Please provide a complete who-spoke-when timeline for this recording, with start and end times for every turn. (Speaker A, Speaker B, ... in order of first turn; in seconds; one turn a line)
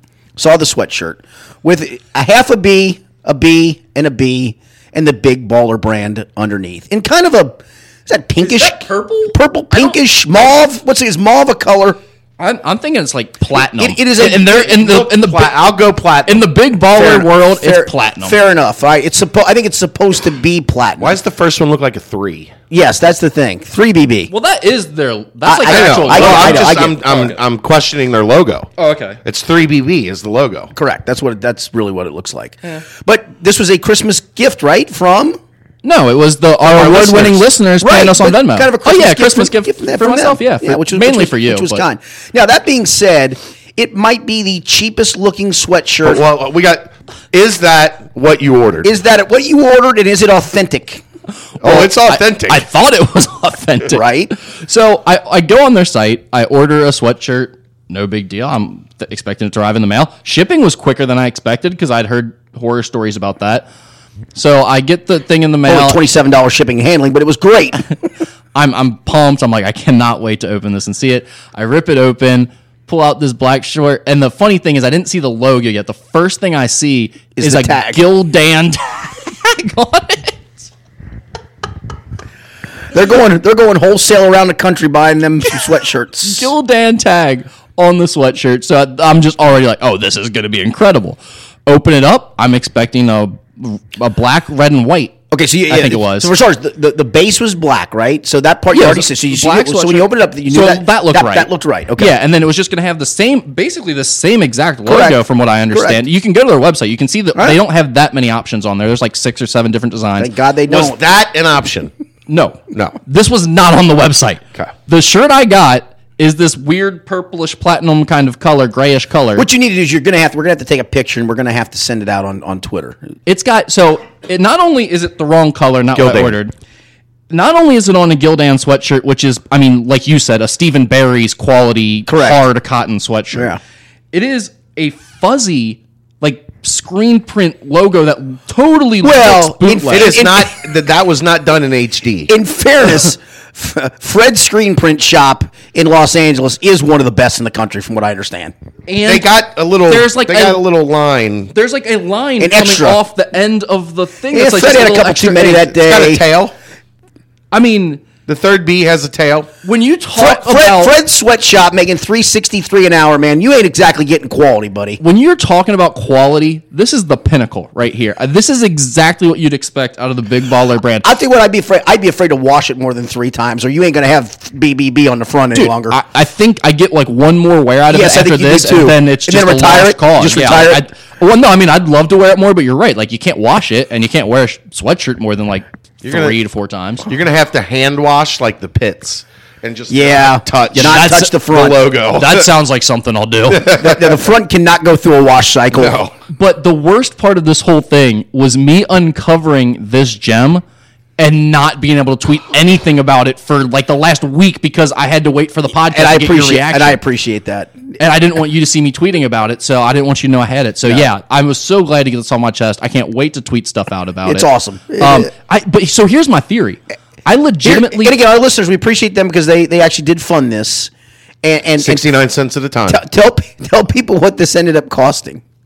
Speaker A: 0.4-12.0
Speaker B: 8.4-9.9
Speaker B: 12.4-15.7
Speaker A: 13.6-14.7
Speaker C: 14.4-16.5
Speaker B: 16.3-18.4
Speaker A: 16.9-21.2
Speaker C: 21.0-22.5
Speaker A: 22.7-24.3
Speaker B: 24.3-27.1
Speaker A: 25.4-27.3
Speaker C: 25.6-30.7
Speaker B: 28.8-29.2
Speaker A: 30.7-35.4
Speaker B: 35.8-41.8
Speaker C: 36.7-37.5
Speaker A: 37.8-46.2
Speaker C: 46.0-48.9
Speaker A: 48.8-51.0
Speaker B: 51.6-63.7
Speaker C: 51.6-52.7
Speaker A: 53.9-54.3
Speaker B: 64.3-66.0
Speaker A: 65.7-67.9
Speaker B: 68.5-80.7
Speaker A: 77.4-78.0
Speaker A: 82.9-86.5
Speaker B: 86.2-96.3
Speaker A: 95.3-102.2
Speaker B: 98.7-110.3
Speaker A: 104.9-105.2
Speaker A: 105.7-106.0
Speaker A: 107.3-107.6
Speaker A: 110.2-111.0
Speaker C: 110.7-111.9
Speaker B: 112.3-119.5
Speaker C: 112.7-113.0
Speaker A: 119.4-123.0
Speaker B: 123.3-126.5
Speaker C: 126.0-126.4
Speaker B: 127.3-133.5
Speaker A: 132.1-132.4
Speaker A: 133.3-133.6
Speaker B: 134.1-140.2
Speaker A: 139.0-140.6
Speaker C: 139.9-142.3
Speaker A: 142.3-148.5
Speaker B: 148.9-149.3
Speaker C: 149.1-151.5
Speaker B: 149.9-150.6
Speaker B: 151.5-155.8
Speaker A: 152.4-153.0
Speaker A: 154.3-156.2
Speaker C: 155.8-156.5
Speaker B: 157.5-158.0
Speaker C: 158.3-159.5
Speaker B: 159.6-161.0
Speaker A: 160.2-165.0
Speaker B: 165.0-171.1
Speaker A: 171.0-176.0
Speaker B: 175.5-187.1
Speaker A: 177.9-180.8
Speaker C: 186.0-186.4
Speaker C: 187.1-192.5
Speaker A: 189.9-191.9
Speaker B: 190.7-193.7
Speaker C: 193.5-194.2
Speaker A: 193.7-196.0
Speaker C: 195.7-196.1
Speaker B: 196.3-200.6
Speaker B: 201.2-207.0
Speaker A: 205.9-207.9
Speaker B: 208.0-218.2
Speaker A: 214.2-215.3
Speaker A: 217.6-220.9
Speaker A: 221.4-222.0
Speaker C: 221.8-223.0
Speaker A: 222.9-225.4